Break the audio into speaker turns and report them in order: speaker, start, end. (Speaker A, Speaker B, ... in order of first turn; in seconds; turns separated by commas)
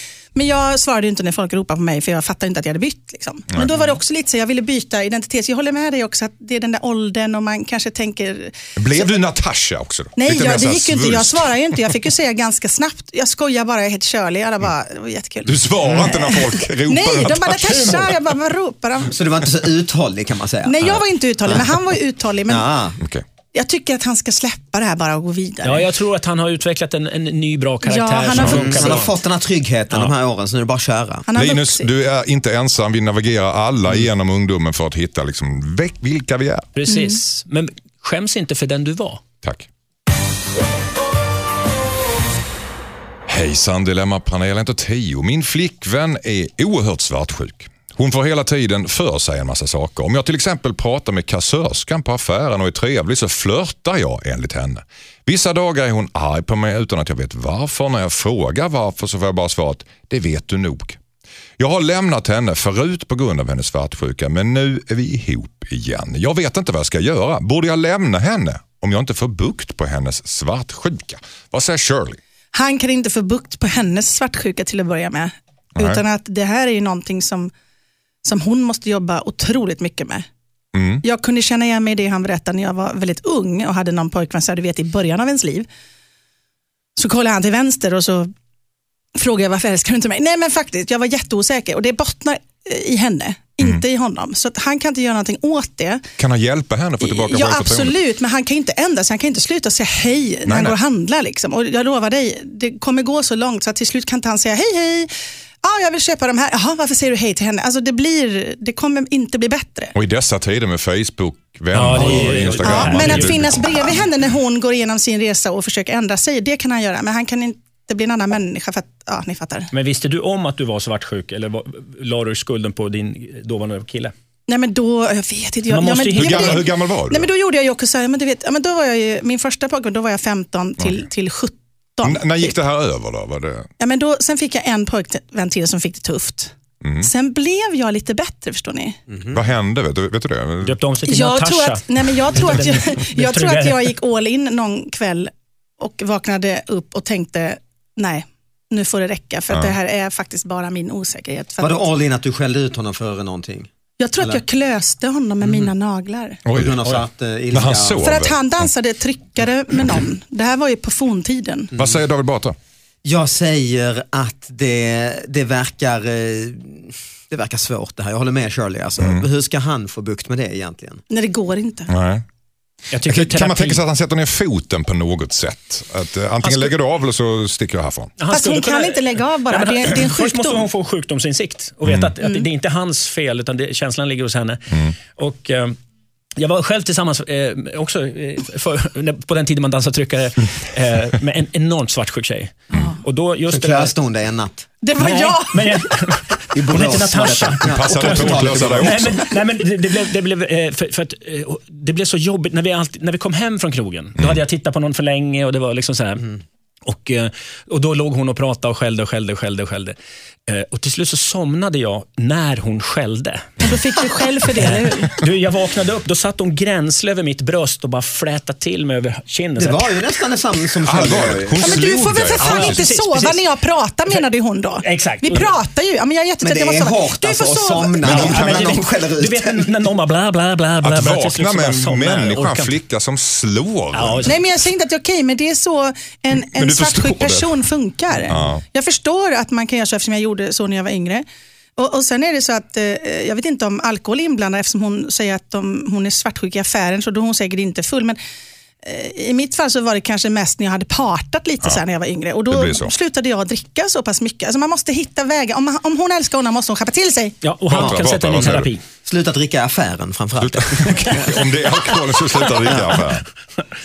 Speaker A: 0.3-9.1, Speaker B: 3.5-3.8, Speaker B: 8.8-11.9, Speaker A: 10.2-19.2, Speaker B: 15.5-18.1, Speaker C: 17.7-18.1, Speaker D: 19.1-21.7, Speaker A: 20.6-22.7, Speaker D: 22.5-23.0, Speaker A: 23.5-25.9, Speaker C: 25.6-29.1, Speaker A: 27.8-29.0, Speaker D: 28.4-31.3, Speaker A: 31.3-31.9, Speaker B: 31.4-36.7, Speaker C: 36.8-39.2, Speaker A: 36.9-37.2, Speaker B: 43.3-61.0, Speaker B: 61.6-72.2, Speaker A: 72.5-77.5, Speaker B: 75.8-76.0, Speaker A: 78.2-80.3, Speaker B: 80.7-81.0, Speaker A: 81.0-85.7, Speaker A: 87.0-88.3, Speaker A: 89.2-96.0, Speaker B: 96.2-98.0, Speaker A: 97.0-105.1, Speaker B: 100.5-100.8, Speaker A: 105.6-109.9, Speaker B: 109.9-114.0, Speaker C: 111.7-113.7, Speaker A: 112.6-119.7, Speaker C: 119.7-124.1, Speaker A: 124.5-132.6, Speaker C: 125.7-126.7, Speaker B: 126.1-127.3, Speaker B: 132.0-133.7, Speaker A: 133.8-139.0, Speaker B: 136.8-137.1, Speaker B: 139.3-140.8, Speaker C: 140.6-143.9, Speaker A: 141.1-151.8, Speaker D: 151.6-154.4, Speaker A: 154.0-156.4, Speaker B: 156.4-156.8, Speaker D: 156.5-158.1, Speaker B: 157.5-158.7, Speaker A: 158.0-161.7, Speaker B: 161.8-162.6, Speaker D: 163.0-171.0, Speaker B: 169.0-169.2, Speaker A: 171.1-171.9, Speaker B: 171.9-172.2, Speaker C: 172.9-173.8, Speaker B: 173.1-178.1, Speaker C: 176.4-176.7, Speaker C: 178.2-185.8, Speaker A: 178.3-180.7, Speaker B: 181.8-182.1, Speaker A: 182.2-182.5, Speaker C: 186.4-193.9, Speaker D: 193.5-194.7, Speaker A: 194.8-196.1, Speaker C: 195.0-206.3, Speaker D: 196.5-199.2, Speaker B: 197.6-199.3, Speaker C: 206.8-209.9, Speaker C: 210.5-213.7, Speaker A: 213.6-215.2, Speaker C: 214.5-220.0, Speaker D: 219.6-221.9, Speaker B: 220.8-222.8, Speaker A: 221.6-228.3, Speaker C: 222.4-223.5, Speaker C: 224.8-225.5, Speaker D: 226.4-229.7, Speaker B: 228.0-228.8, Speaker C: 228.0-232.8, Speaker B: 230.8-234.3, Speaker C: 233.9-234.4, Speaker A: 234.3-241.2, Speaker B: 236.3-237.6, Speaker B: 238.3-238.6, Speaker A: 241.8-248.2, Speaker A: 248.8-257.4, Speaker B: 252.5-252.9, Speaker C: 257.4-258.8, Speaker B: 257.7-258.7, Speaker D: 257.7-261.5, Speaker B: 260.4-263.2, Speaker D: 262.6-263.0